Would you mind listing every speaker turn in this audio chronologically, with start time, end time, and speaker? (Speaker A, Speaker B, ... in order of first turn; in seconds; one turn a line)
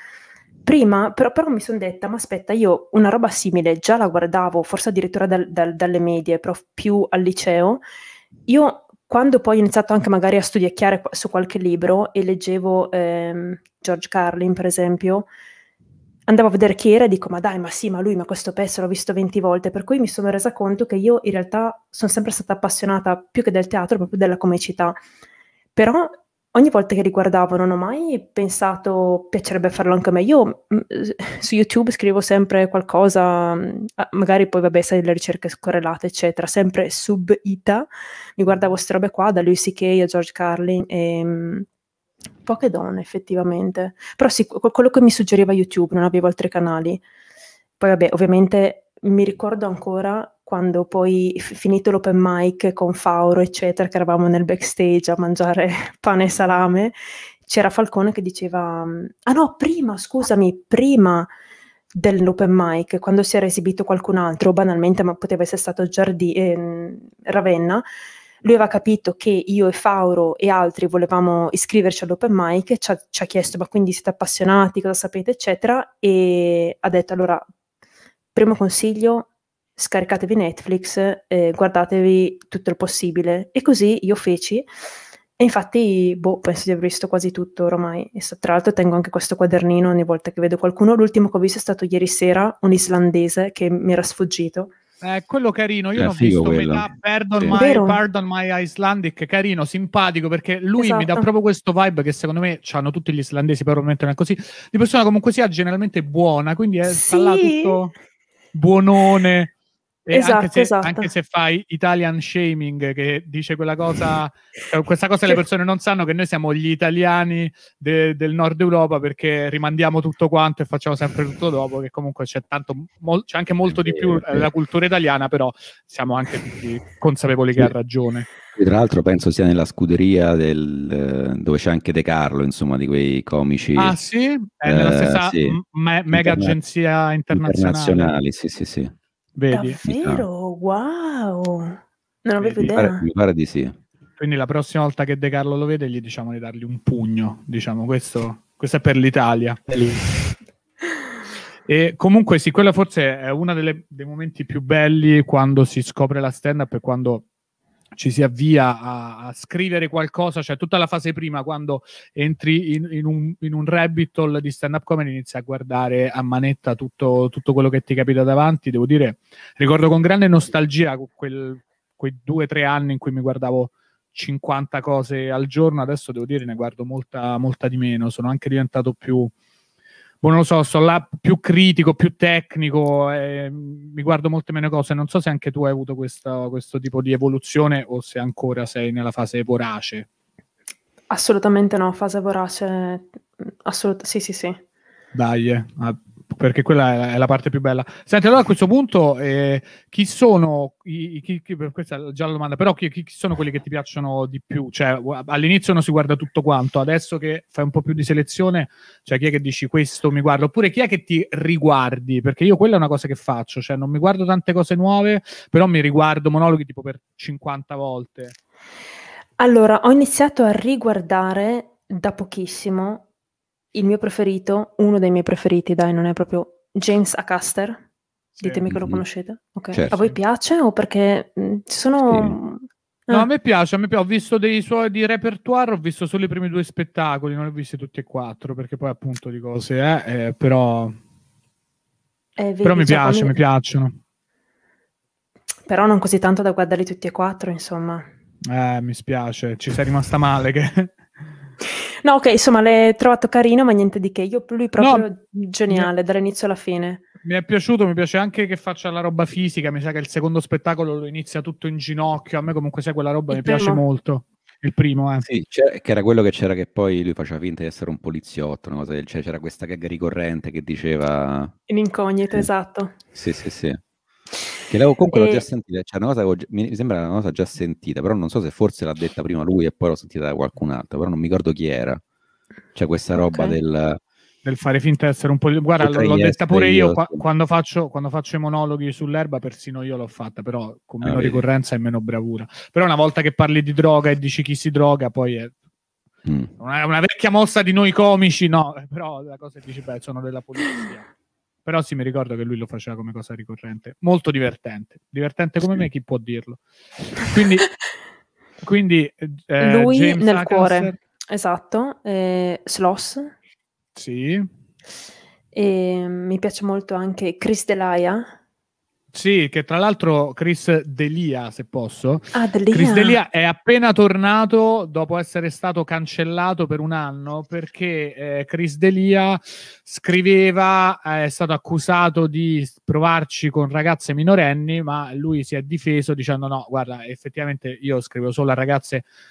Speaker A: 0.6-7.8
Speaker A: 8.5-15.3
Speaker A: 16.3-25.0
Speaker A: 25.8-41.7
Speaker A: 42.5-47.0
Speaker A: 47.8-61.3
Speaker A: 61.9-67.8
Speaker A: 68.4-77.4
Speaker A: 78.3-84.7
Speaker A: 85.4-94.7
Speaker B: 95.0-107.9
Speaker C: 96.0-96.9
Speaker A: 97.5-98.0
Speaker A: 100.8-101.2
Speaker A: 106.8-107.8
Speaker B: 108.5-109.5
Speaker B: 110.0-128.3
Speaker A: 110.1-111.1
Speaker C: 123.7-124.5
Speaker C: 128.5-134.0
Speaker B: 133.8-138.2
Speaker C: 134.6-135.6
Speaker C: 136.1-136.6
Speaker C: 137.3-138.9
Speaker B: 139.3-139.8
Speaker A: 139.5-143.0
Speaker C: 139.8-140.2
Speaker B: 142.4-142.7
Speaker C: 142.6-143.8
Speaker B: 144.2-150.1
Speaker B: 151.7-157.2
Speaker B: 157.9-179.3
Speaker B: 180.2-190.1
Speaker A: 191.1-194.6
Speaker B: 195.1-218.3
Speaker A: 219.4-223.1
Speaker A: 223.7-227.8
Speaker A: 228.4-233.3
Speaker C: 228.7-229.0
Speaker C: 229.7-230.0
Speaker C: 232.1-232.3
Speaker B: 233.1-241.0
Speaker A: 242.4-243.4
Speaker B: 242.6-244.0
Speaker A: 245.7-248.0
Speaker B: 248.5-251.0
Speaker A: 252.0-257.0
Speaker B: 254.8-255.1
Speaker B: 257.2-265.3
Speaker A: 263.3-263.8
Speaker C: 265.2-271.5
Speaker A: 271.7-272.9
Speaker C: 273.1-273.8
Speaker C: 274.7-282.0
Speaker A: 275.0-275.4
Speaker C: 282.7-284.0
Speaker A: 283.1-283.6
Speaker B: 284.4-295.5
Speaker C: 285.8-287.2
Speaker C: 291.0-291.4
Speaker C: 296.2-296.5
Speaker B: 296.6-301.1
Speaker B: 301.6-307.7
Speaker B: 308.6-310.9
Speaker A: 309.6-313.3
Speaker B: 313.9-314.5
Speaker A: 315.5-318.3
Speaker B: 319.1-339.1
Speaker A: 322.3-323.2